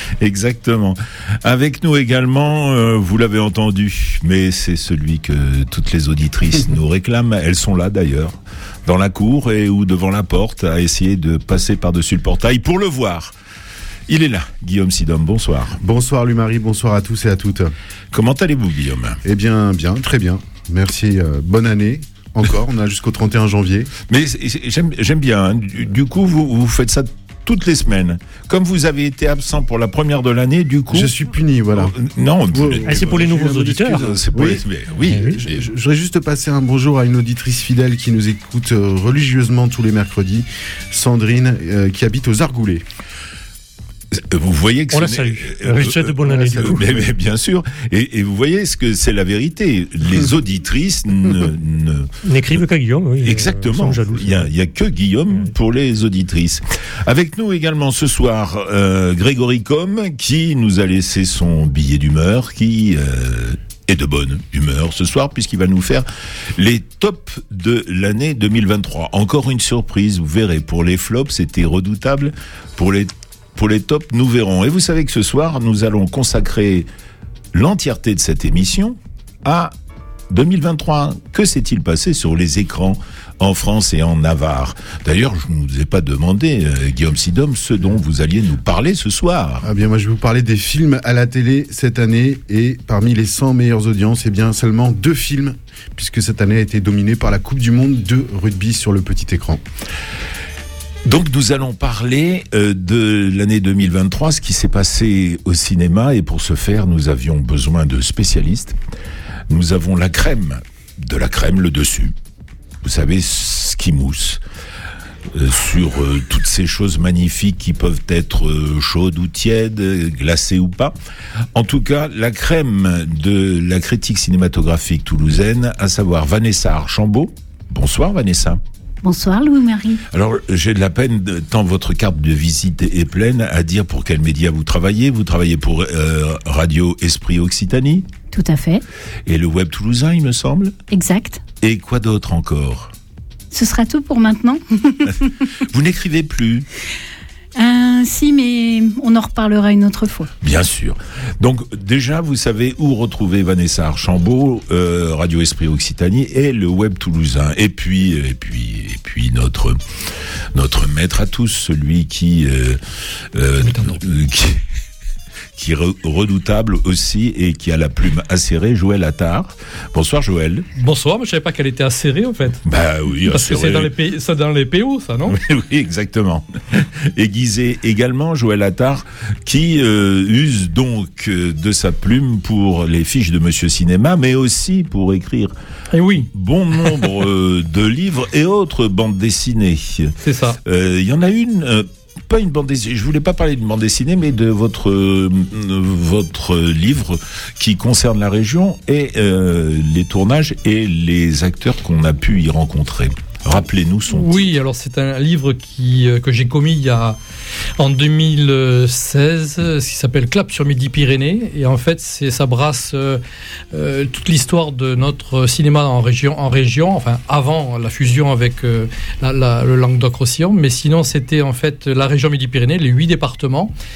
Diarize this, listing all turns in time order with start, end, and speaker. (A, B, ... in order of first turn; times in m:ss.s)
0:00.2-0:13.3 A
0:14.1-0:15.8 A
0:15.8-0:17.7 B
0:18.1-0:19.2 A
0:19.2-0:23.9 B
0:24.1-0:31.1 A
0:30.9-0:31.9 B
0:31.8-0:35.6 A
0:32.5-0:42.8 B
0:32.8-0:34.1 C
0:35.1-0:35.3 C
0:44.1-0:52.6 A
0:44.9-0:47.0 C
0:46.2-0:47.1 B
0:52.2-0:54.5 C
0:53.2-1:16.9 A
1:17.5-1:19.7 A
1:20.3-1:29.7 A
1:29.6-1:39.6 B
1:41.0-1:48.8 A
1:49.5-1:52.1 A
1:52.8-1:54.4 A
1:55.3-2:01.0 A
2:01.6-2:08.6 A
2:09.0-2:10.0 D
2:10.1-2:18.1 A
2:18.3-2:18.8 D
2:19.2-2:20.8 A
2:20.9-2:21.4 D
2:21.6-2:22.9 A
2:23.5-2:25.3 D
2:25.7-2:26.6 A
2:27.6-2:30.3 D
2:30.4-2:39.8 A
2:40.5-2:42.8 A
2:43.3-2:44.6 A
2:43.6-2:44.0 E
2:45.6-2:50.6 A
2:50.8-2:52.6 E
2:52.6-2:53.9 A
2:53.2-2:55.4 E
2:55.3-3:05.5 A
3:05.9-3:06.3 E
3:06.2-3:24.5 A
3:06.8-3:07.1 E
3:10.2-3:10.6 E
3:24.1-3:27.2 E
3:27.8-3:33.2 E
3:33.7-3:43.7 E